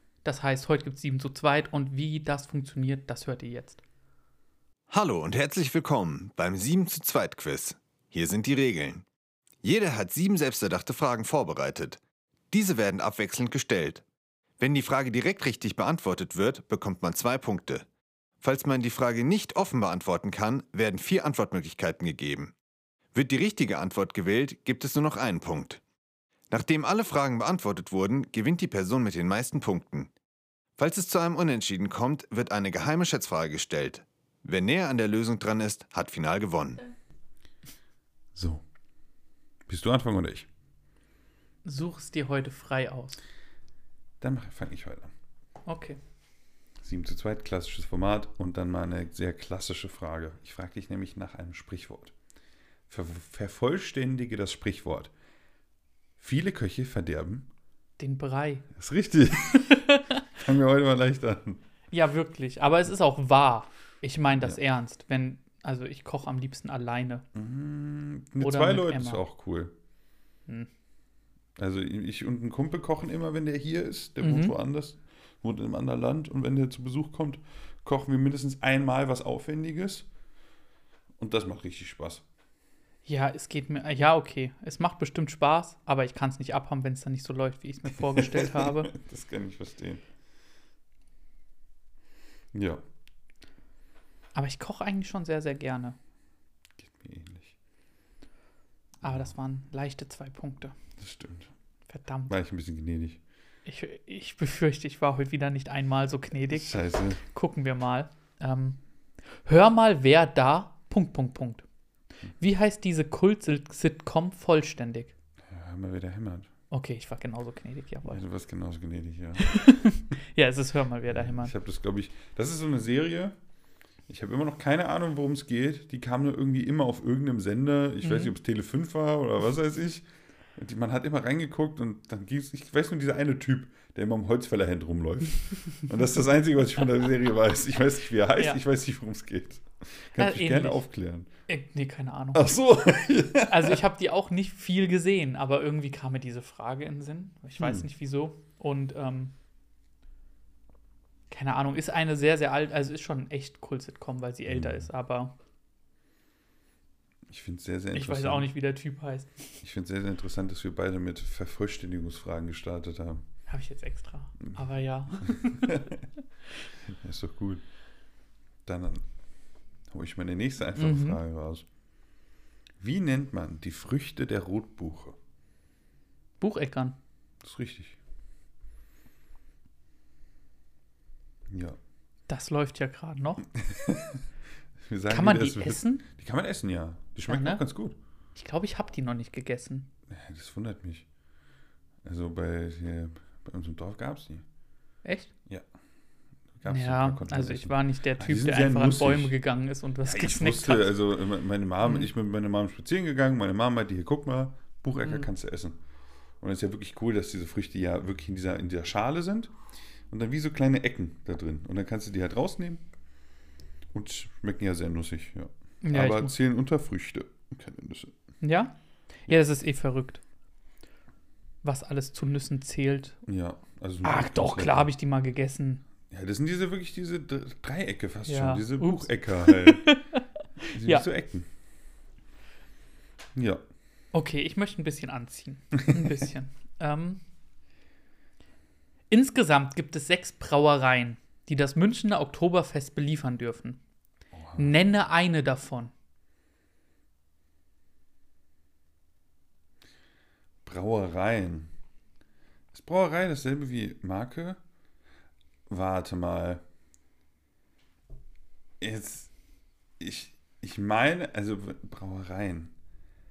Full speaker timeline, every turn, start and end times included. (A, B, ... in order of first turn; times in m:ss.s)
0:00.2-0:03.8 A
0:04.9-0:09.0 B
0:09.6-0:12.0 B
0:12.5-0:14.0 B
0:14.6-0:17.8 B
0:18.4-0:22.5 B
0:23.1-0:25.8 B
0:26.5-0:30.1 B
0:30.8-0:36.8 B
0:38.3-0:38.6 C
0:39.7-0:40.5 C
0:41.6-0:43.2 A
0:44.2-0:45.1 C
0:45.7-0:46.0 A
0:46.8-0:52.1 C
0:52.9-0:55.1 C
0:56.2-0:57.5 C
0:58.0-0:58.7 A
0:58.7-0:59.8 C
0:59.5-1:00.2 A
1:00.3-1:01.6 C
1:01.9-1:07.2 A
1:07.3-1:09.7 C
1:08.4-1:09.2 A
1:11.6-1:20.1 C
1:14.2-1:14.6 A
1:21.2-1:22.2 C
1:23.0-1:28.9 A
1:28.0-1:30.0 C
1:32.5-1:32.8 C
1:34.3-1:36.0 A
1:36.8-1:37.5 C
1:39.0-1:39.3 C
1:39.0-1:40.7 A
1:41.0-1:41.5 C
1:41.9-1:42.3 A
1:42.3-1:43.2 C
1:43.6-1:48.8 A
1:46.5-1:47.2 C
1:49.4-1:51.6 A
1:52.4-1:55.1 A
1:55.4-1:56.5 C
1:56.7-1:58.2 A
1:58.1-1:59.6 C
1:59.4-2:01.5 A
2:01.1-2:03.4 C
2:04.1-2:21.3 C
2:08.0-2:08.3 A
2:20.1-2:20.9 A
2:21.5-2:22.5 A
2:22.3-2:23.8 C
2:23.4-2:29.3 A
2:27.6-2:27.8 C
2:31.3-2:35.3 A
2:34.5-2:34.9 C
2:37.3-2:38.5 C
2:37.9-2:39.6 A
2:39.6-2:43.2 C
2:43.5-2:45.8 A
2:45.3-2:46.0 C
2:46.8-2:47.6 C
2:48.6-2:49.0 C
2:49.9-2:51.6 C
2:50.8-2:51.2 A
2:52.8-2:55.2 C
2:56.4-2:57.0 A
2:57.4-2:58.0 C
3:01.5-3:01.8 C
3:02.3-3:03.4 A
3:03.5-3:04.2 C
3:04.8-3:08.0 C
3:05.1-3:06.0 A
3:07.3-3:07.6 A
3:08.3-3:09.9 A
3:10.1-3:11.1 C
3:12.0-3:14.4 C
3:15.0-3:15.3 A
3:16.6-3:19.3 C
3:16.6-3:20.9 A
3:20.0-3:25.8 C
3:25.0-3:25.3 A
3:26.4-3:29.5 C
3:30.1-3:32.8 C
3:33.9-3:38.2 C
3:35.8-3:36.3 A
3:38.4-3:40.2 A
3:41.6-3:43.2 A
3:43.2-3:44.9 C
3:44.0-3:45.8 A
3:46.1-3:50.0 C
3:48.2-3:51.0 A
3:50.7-3:51.5 C
3:53.3-3:53.6 C
3:54.1-3:57.2 A
3:59.1-4:03.8 A
4:04.3-4:04.8 C
4:04.6-4:05.9 A
4:10.6-4:11.7 C
4:12.7-4:14.6 C
4:15.7-4:16.6 C
4:18.8-4:19.3 C
4:20.0-4:22.7 C